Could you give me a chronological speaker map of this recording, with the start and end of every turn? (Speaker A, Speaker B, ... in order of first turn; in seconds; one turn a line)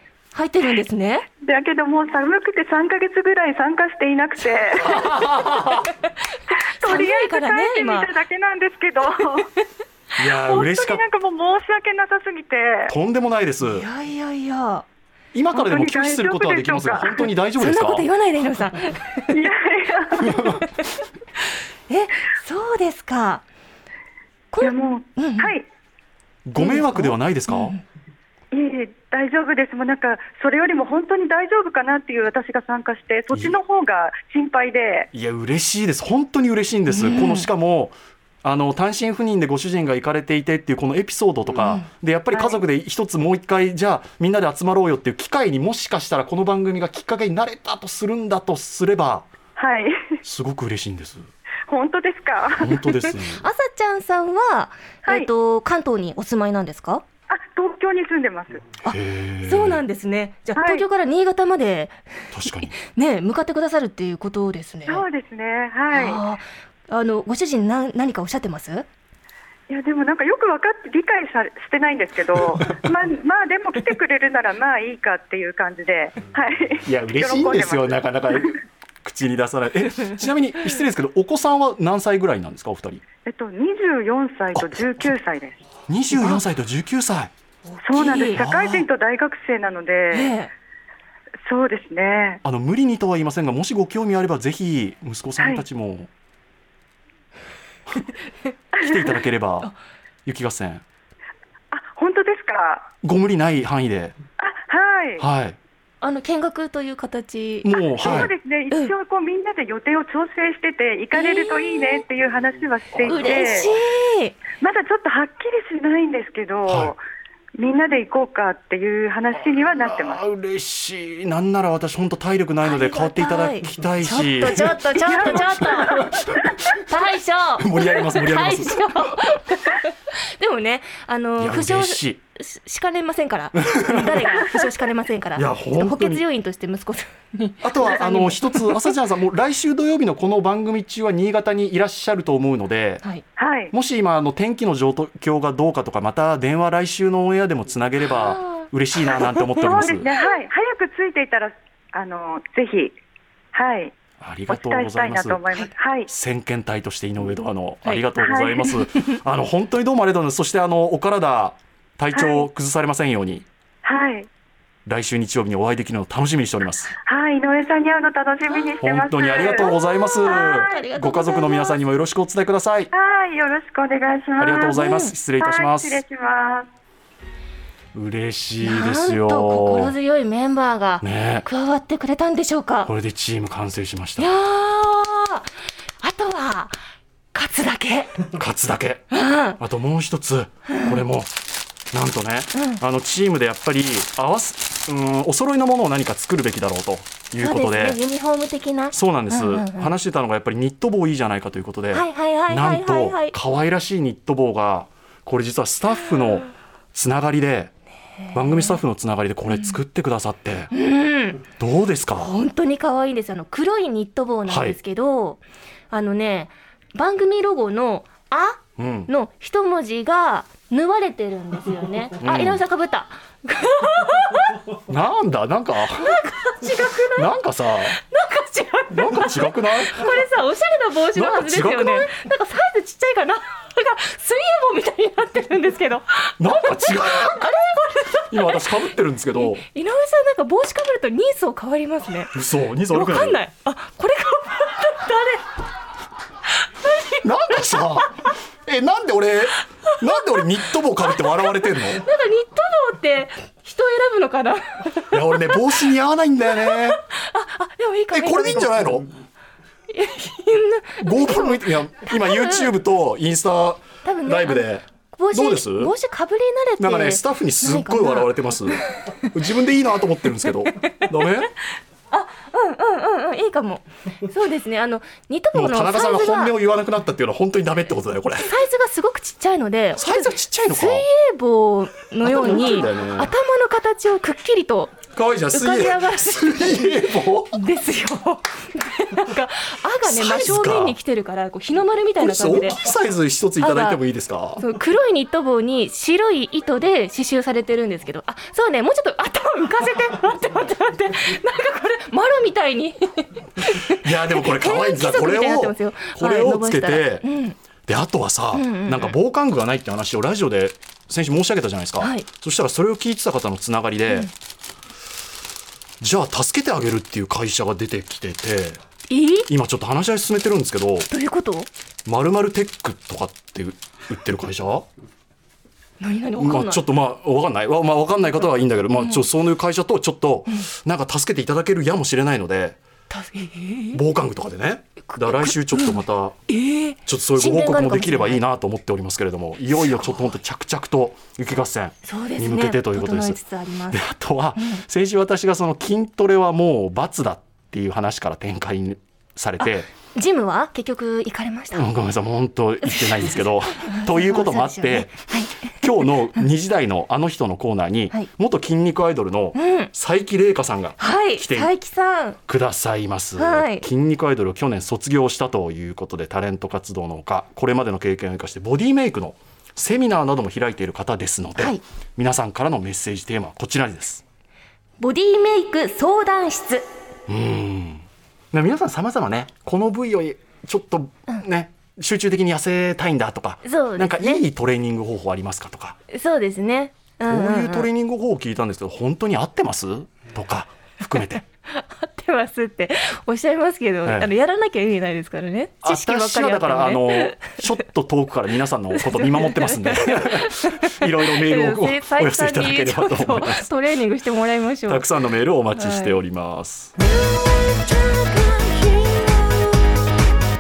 Speaker A: 0.3-1.2
Speaker B: 1.4-5.2
Speaker C: 4.8-5.9
Speaker A: 6.5-8.1
Speaker B: 6.8-9.5
Speaker C: 10.2-11.0
Speaker B: 10.4-12.9
Speaker C: 12.9-13.9
Speaker A: 13.7-14.9
Speaker C: 15.3-18.1
Speaker B: 15.5-17.3
Speaker A: 17.6-19.4
Speaker B: 19.3-20.5
Speaker C: 20.3-20.6
Speaker A: 20.3-20.9
Speaker A: 21.9-23.4
Speaker A: 24.5-25.6
Speaker B: 24.6-25.6
Speaker C: 26.5-27.8
Speaker A: 26.6-27.8
Speaker B: 28.5-35.1
Speaker C: 33.3-33.6
Speaker C: 35.1-49.3
Speaker A: 36.9-37.5
Speaker A: 41.6-41.9
Speaker B: 49.6-50.1
Speaker C: 50.2-51.3
Speaker B: 51.7-52.8
Speaker C: 52.6-53.4
Speaker A: 52.8-57.0
Speaker B: 55.0-55.3
Speaker B: 57.3-58.7
Speaker A: 58.8-65.1
Speaker C: 58.9-59.8
Speaker B: 60.5-60.9
Speaker C: 62.3-62.8
Speaker B: 64.9-66.2
Speaker A: 65.9-68.9
Speaker B: 69.7-78.6
Speaker C: 76.8-83.0
Speaker B: 83.2-85.6
Speaker C: 84.5-85.1
Speaker C: 85.9-87.3
Speaker A: 86.2-86.4
Speaker A: 87.7-88.8
Speaker B: 87.8-90.3
Speaker C: 88.0-88.8
Speaker A: 90.1-90.5
Speaker B: 91.5-92.4
Speaker C: 92.4-96.1
Speaker B: 95.4-95.6
Speaker B: 98.8-99.1
Speaker C: 98.8-99.7
Speaker C: 100.3-100.8
Speaker B: 101.7-102.9
Speaker C: 103.0-104.2
Speaker B: 104.4-105.2
Speaker C: 105.2-105.6
Speaker A: 106.0-108.9
Speaker C: 107.6-108.3
Speaker B: 108.0-113.8
Speaker A: 111.1-112.0
Speaker C: 112.9-113.5
Speaker A: 113.1-114.4
Speaker B: 114.6-117.0
Speaker C: 116.7-116.9
Speaker B: 117.6-120.3
Speaker C: 119.5-126.5
Speaker A: 122.6-126.1
Speaker B: 125.1-126.1
Speaker A: 126.7-139.0
Speaker C: 127.6-129.1
Speaker C: 131.4-132.2
Speaker C: 133.7-134.5
Speaker C: 135.4-136.2
Speaker C: 137.6-143.0
Speaker B: 143.4-143.7
Speaker C: 143.7-150.1
Speaker A: 148.1-148.7
Speaker B: 149.5-152.9
Speaker A: 149.6-150.1
Speaker B: 153.5-153.9
Speaker C: 154.2-155.4
Speaker B: 154.5-156.1
Speaker C: 156.1-163.5
Speaker B: 158.2-158.6
Speaker A: 158.6-159.0
Speaker B: 162.1-162.5
Speaker B: 163.8-164.3
Speaker C: 164.9-166.9
Speaker B: 167.1-170.8
Speaker C: 168.8-172.9
Speaker A: 169.3-171.8
Speaker B: 172.9-174.8
Speaker C: 174.4-176.0
Speaker A: 174.6-175.2
Speaker B: 175.4-176.7
Speaker C: 177.9-179.9
Speaker A: 178.6-182.9
Speaker C: 181.0-181.5
Speaker C: 182.8-184.3
Speaker A: 184.2-186.8
Speaker A: 187.3-188.3
Speaker C: 188.3-191.3
Speaker A: 189.1-189.6
Speaker A: 190.7-191.0
Speaker C: 191.9-198.0
Speaker A: 192.5-192.8
Speaker A: 197.4-199.9
Speaker C: 198.9-207.7
Speaker A: 201.9-203.4
Speaker A: 206.1-206.4
Speaker A: 208.3-208.8
Speaker C: 208.3-210.7
Speaker A: 209.5-209.8
Speaker A: 210.7-211.5
Speaker C: 211.6-212.3
Speaker A: 212.2-224.8
Speaker C: 214.5-214.8
Speaker C: 218.8-219.1
Speaker C: 222.2-222.6
Speaker C: 224.9-226.2
Speaker A: 225.9-227.3
Speaker C: 227.1-228.0
Speaker A: 227.9-238.7
Speaker C: 228.9-230.2
Speaker C: 231.1-232.1
Speaker C: 236.4-237.6
Speaker C: 238.3-239.6
Speaker A: 239.3-242.4
Speaker C: 242.3-243.4
Speaker A: 242.9-245.5
Speaker A: 246.6-248.1
Speaker C: 247.2-252.1
Speaker A: 250.0-250.5
Speaker A: 251.0-255.9
Speaker C: 255.1-257.0
Speaker A: 256.4-259.0
Speaker C: 258.1-259.1
Speaker A: 259.9-262.7
Speaker C: 261.0-265.9
Speaker A: 264.0-269.3
Speaker C: 266.8-271.5
Speaker A: 270.8-271.2
Speaker A: 272.1-276.6
Speaker C: 275.5-278.5
Speaker A: 278.4-285.0
Speaker C: 280.0-281.1
Speaker C: 282.2-283.3
Speaker C: 285.1-287.6
Speaker A: 285.5-292.8
Speaker C: 290.0-291.0
Speaker C: 292.2-294.6
Speaker A: 293.6-294.0
Speaker A: 294.6-307.6
Speaker C: 303.6-307.3
Speaker C: 307.9-314.3
Speaker A: 308.5-309.2
Speaker A: 312.0-312.3
Speaker C: 316.0-318.8
Speaker A: 319.1-319.5
Speaker C: 319.5-321.1
Speaker A: 321.1-321.7
Speaker C: 322.1-324.9
Speaker A: 326.0-326.9
Speaker C: 326.4-332.8
Speaker A: 328.9-329.3
Speaker A: 333.1-334.0
Speaker C: 333.9-336.4
Speaker A: 335.1-338.4
Speaker C: 337.1-349.9
Speaker A: 339.7-340.4
Speaker A: 342.0-344.0
Speaker A: 344.6-344.8
Speaker A: 349.6-351.9
Speaker C: 351.7-361.7
Speaker A: 352.9-356.1
Speaker A: 359.6-359.9
Speaker A: 361.0-362.4
Speaker C: 362.5-374.2
Speaker A: 363.4-363.9
Speaker A: 375.0-376.9
Speaker C: 377.3-386.0
Speaker A: 383.6-384.4
Speaker A: 386.1-387.9
Speaker C: 387.2-391.4
Speaker A: 391.1-397.6
Speaker C: 394.1-394.3
Speaker C: 395.8-403.7
Speaker A: 398.9-405.1
Speaker C: 404.9-406.9
Speaker A: 405.7-406.2
Speaker A: 407.0-409.8